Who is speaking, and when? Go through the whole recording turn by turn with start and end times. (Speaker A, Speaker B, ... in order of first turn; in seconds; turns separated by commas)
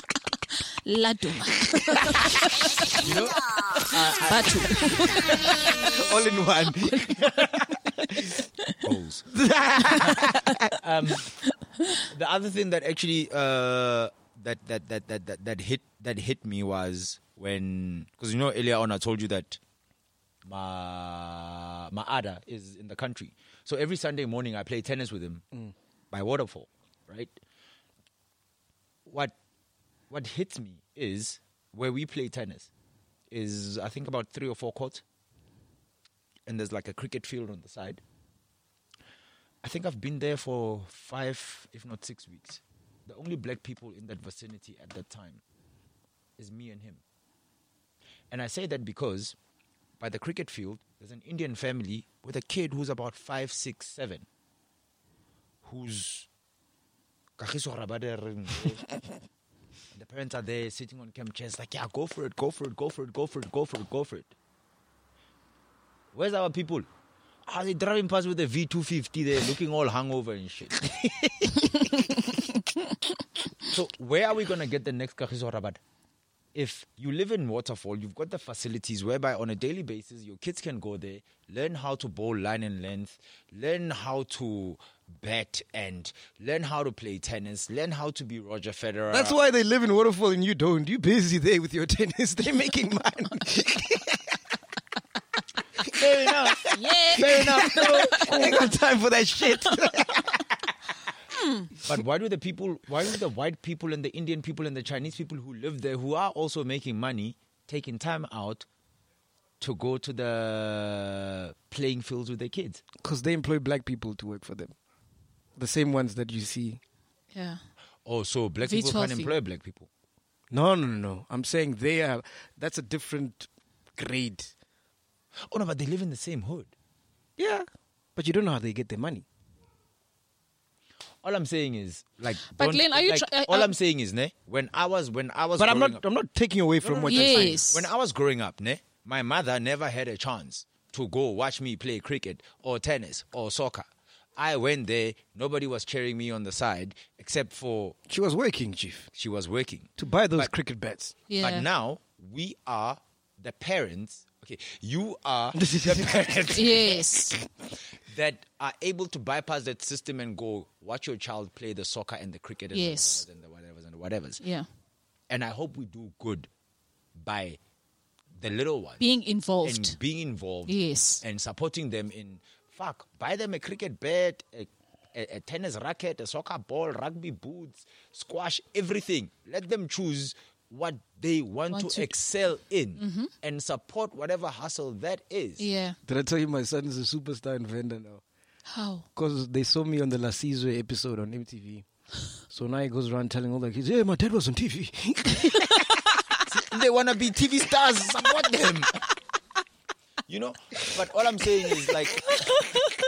Speaker A: 0.8-3.1, Speaker B: 3.0-4.8, Speaker A: 4.2-5.5, Speaker C: 5.9-7.6, Speaker B: 6.1-7.8, Speaker B: 8.8-11.4, Speaker C: 9.3-10.7, Speaker B: 12.1-19.6, Speaker B: 20.4-25.4, Speaker B: 26.1-27.3, Speaker B: 29.1-29.3, Speaker B: 30.1-32.7, Speaker B: 33.3-35.0, Speaker B: 36.5-38.0, Speaker B: 39.6-45.4, Speaker B: 46.4-47.0, Speaker B: 48.3-49.3, Speaker B: 50.0-54.2, Speaker B: 55.6-56.3, Speaker B: 57.4-58.9, Speaker B: 59.9-64.3, Speaker B: 66.1-66.8, Speaker B: 67.5-70.9, Speaker B: 73.7-75.8, Speaker B: 76.5-89.3, Speaker C: 89.1-94.5, Speaker B: 95.8-98.7, Speaker C: 96.0-100.4, Speaker A: 96.7-98.5, Speaker A: 101.3-101.7, Speaker B: 101.8-108.6, Speaker B: 109.6-112.8, Speaker C: 113.0-114.7, Speaker C: 115.5-116.8, Speaker A: 117.3-117.6, Speaker B: 118.0-119.9, Speaker A: 118.6-119.3, Speaker C: 120.5-124.5, Speaker B: 125.5-126.7, Speaker C: 127.4-129.2, Speaker B: 131.2-136.0, Speaker A: 132.5-133.7, Speaker C: 135.6-137.7, Speaker B: 136.8-147.9, Speaker A: 137.1-137.8, Speaker C: 148.1-149.1, Speaker B: 149.1-150.5, Speaker C: 150.0-151.1, Speaker A: 151.3-151.6, Speaker B: 151.4-157.0, Speaker C: 155.6-156.5, Speaker A: 156.5-157.4, Speaker B: 158.1-164.4, Speaker A: 162.7-163.2, Speaker A: 164.4-164.7, Speaker B: 165.3-166.5, Speaker B: 167.2-167.6, Speaker B: 168.4-169.0, Speaker A: 169.0-169.9, Speaker B: 169.6-185.6, Speaker A: 170.7-171.2, Speaker A: 181.7-182.1, Speaker A: 183.0-183.3, Speaker A: 185.6-186.0, Speaker C: 186.1-188.2, Speaker A: 188.7-189.1, Speaker C: 189.2-191.8, Speaker C: 192.5-195.8, Speaker B: 196.5-199.0, Speaker B: 200.3-202.4, Speaker C: 201.8-202.8